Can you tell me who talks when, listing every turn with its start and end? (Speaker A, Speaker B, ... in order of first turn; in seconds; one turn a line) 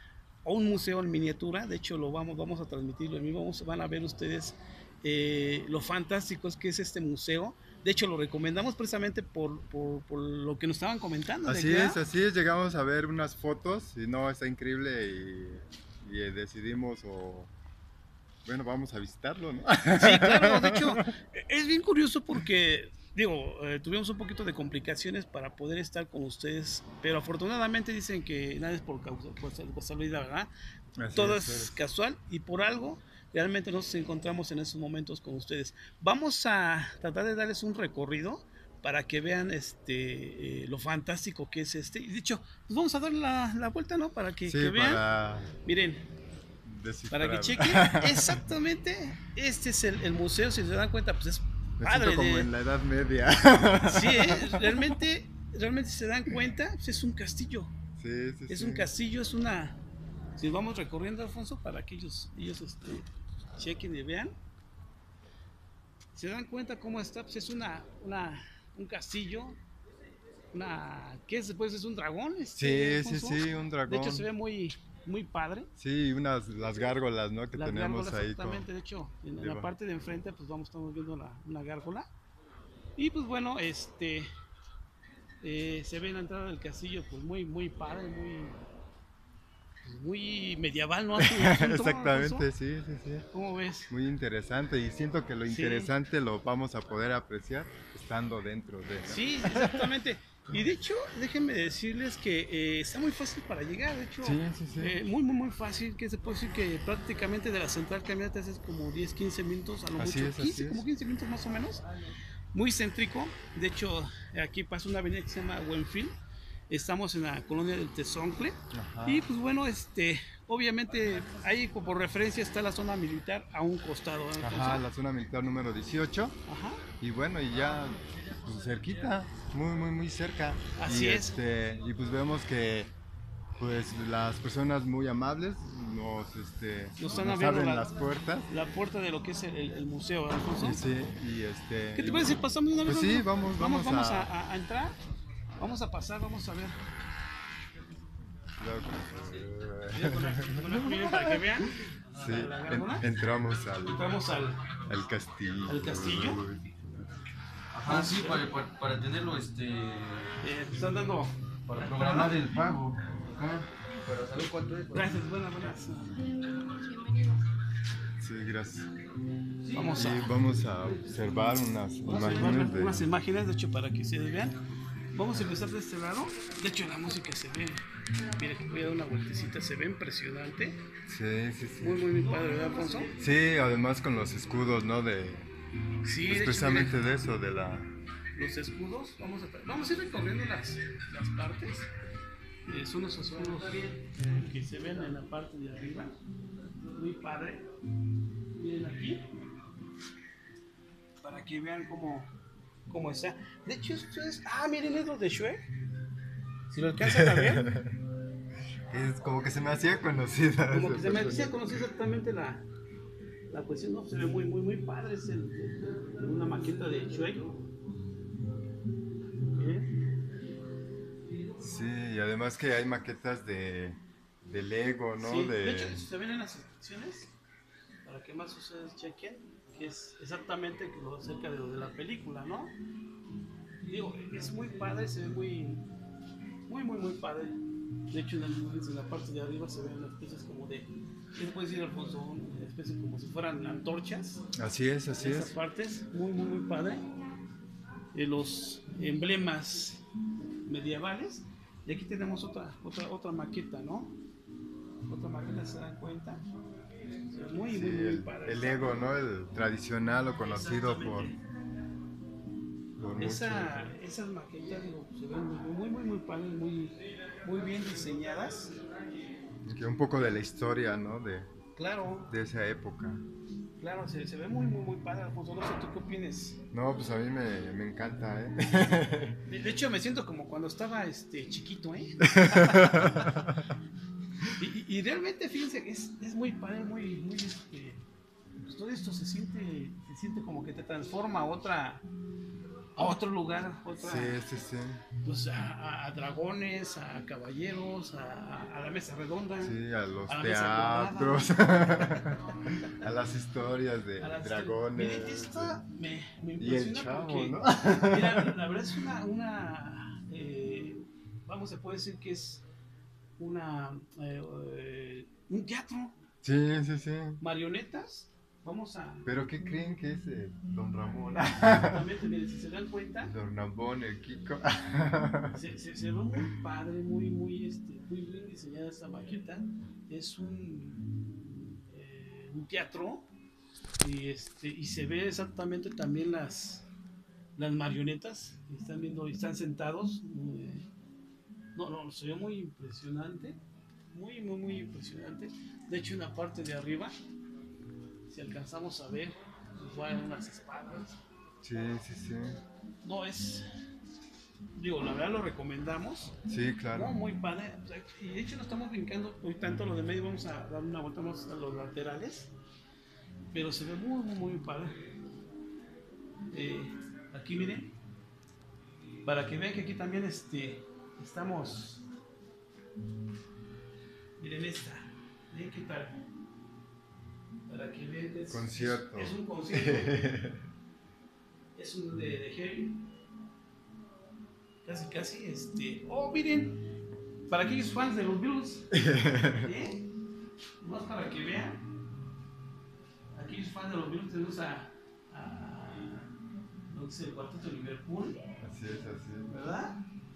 Speaker A: 0.4-12.0
Speaker B: 11.4-17.5
Speaker B: 18.4-21.1
Speaker A: 19.9-30.5
Speaker B: 31.0-31.8
Speaker A: 31.1-45.0
Speaker B: 44.5-45.5
Speaker A: 45.6-46.0
Speaker B: 46.6-48.4
Speaker A: 47.1-52.5
Speaker B: 51.8-54.9
Speaker A: 53.8-57.7
Speaker B: 58.0-58.9
Speaker A: 58.5-59.8
Speaker A: 60.4-64.3
Speaker A: 66.1-69.6
Speaker A: 70.5-75.7
Speaker B: 72.5-74.3
Speaker B: 75.8-78.7
Speaker A: 77.5-82.1
Speaker B: 79.3-79.7
Speaker A: 83.0-84.3
Speaker A: 85.4-88.6
Speaker A: 89.8-92.5
Speaker B: 91.2-93.2
Speaker A: 93.3-93.9
Speaker B: 93.9-99.9
Speaker A: 95.5-95.9
Speaker A: 99.0-111.8
Speaker B: 104.2-104.9
Speaker B: 110.0-110.8
Speaker A: 112.5-116.1
Speaker A: 116.7-124.8
Speaker B: 118.7-119.3
Speaker B: 124.4-126.3
Speaker A: 126.5-126.8
Speaker B: 127.0-132.9
Speaker A: 130.8-131.3
Speaker B: 133.6-138.5
Speaker A: 137.0-137.9
Speaker A: 138.5-140.8
Speaker B: 140.6-144.3
Speaker A: 141.9-145.0
Speaker A: 145.6-146.8
Speaker B: 148.4-151.5
Speaker A: 149.9-153.1
Speaker B: 152.1-154.0
Speaker A: 153.8-154.7
Speaker B: 154.9-157.1
Speaker A: 155.7-156.4
Speaker C: 157.7-160.4
Speaker A: 157.8-158.5
Speaker A: 160.4-162.3
Speaker C: 161.7-165.1
Speaker A: 164.9-166.2
Speaker B: 168.2-168.9
Speaker A: 169.7-170.4
Speaker B: 169.8-173.0
Speaker A: 172.0-174.6
Speaker A: 175.1-180.8
Speaker B: 181.1-182.1
Speaker A: 181.8-183.1
Speaker B: 183.2-185.5
Speaker A: 186.0-187.1
Speaker B: 186.2-187.9
Speaker A: 188.3-191.9
Speaker A: 192.7-196.2
Speaker A: 196.9-197.7
Speaker A: 198.5-199.2
Speaker A: 201.2-202.3
Speaker A: 202.9-205.7
Speaker A: 206.7-207.7
Speaker B: 207.0-208.0
Speaker B: 208.9-211.8
Speaker A: 210.7-212.7
Speaker A: 213.5-217.5
Speaker A: 219.5-219.9
Speaker B: 221.6-226.0
Speaker A: 225.2-227.3
Speaker A: 228.0-232.7
Speaker A: 233.8-235.8
Speaker A: 236.7-237.6
Speaker A: 238.1-244.4
Speaker B: 244.6-245.5
Speaker A: 245.2-247.1
Speaker A: 248.1-250.0
Speaker A: 250.7-254.2
Speaker A: 255.1-256.4
Speaker A: 257.3-259.0
Speaker B: 257.7-261.3
Speaker A: 260.4-261.4
Speaker B: 263.0-263.9
Speaker A: 263.1-268.7
Speaker B: 269.6-271.5
Speaker A: 271.8-272.3
Speaker B: 272.3-273.2
Speaker A: 273.8-276.6
Speaker B: 276.7-279.4
Speaker A: 279.4-283.5
Speaker B: 282.2-283.5
Speaker A: 284.5-288.0
Speaker A: 288.6-292.1
Speaker A: 292.9-294.4
Speaker B: 294.0-295.0
Speaker A: 295.2-302.4
Speaker B: 299.6-305.8
Speaker A: 304.2-312.6
Speaker B: 306.6-308.6
Speaker A: 313.4-316.1
Speaker B: 316.4-317.4
Speaker A: 317.4-319.3
Speaker B: 319.2-322.0
Speaker A: 321.3-323.3
Speaker B: 323.3-325.6
Speaker A: 325.5-333.3
Speaker A: 334.0-336.9
Speaker A: 337.6-340.9
Speaker A: 341.7-343.6
Speaker A: 344.1-347.1
Speaker A: 348.3-351.2
Speaker B: 351.6-352.6
Speaker A: 353.0-353.7
Speaker A: 354.7-356.4
Speaker B: 356.5-357.2
Speaker A: 356.9-362.5
Speaker A: 363.5-365.0
Speaker A: 366.5-367.9
Speaker A: 369.2-372.1
Speaker A: 374.4-376.2
Speaker A: 377.7-380.2
Speaker B: 378.5-380.6
Speaker A: 381.7-383.0
Speaker A: 384.8-386.8
Speaker A: 387.5-390.0
Speaker B: 388.9-389.7
Speaker A: 390.8-391.8
Speaker A: 393.3-396.3
Speaker A: 396.9-398.4
Speaker B: 398.6-399.5
Speaker A: 399.5-399.9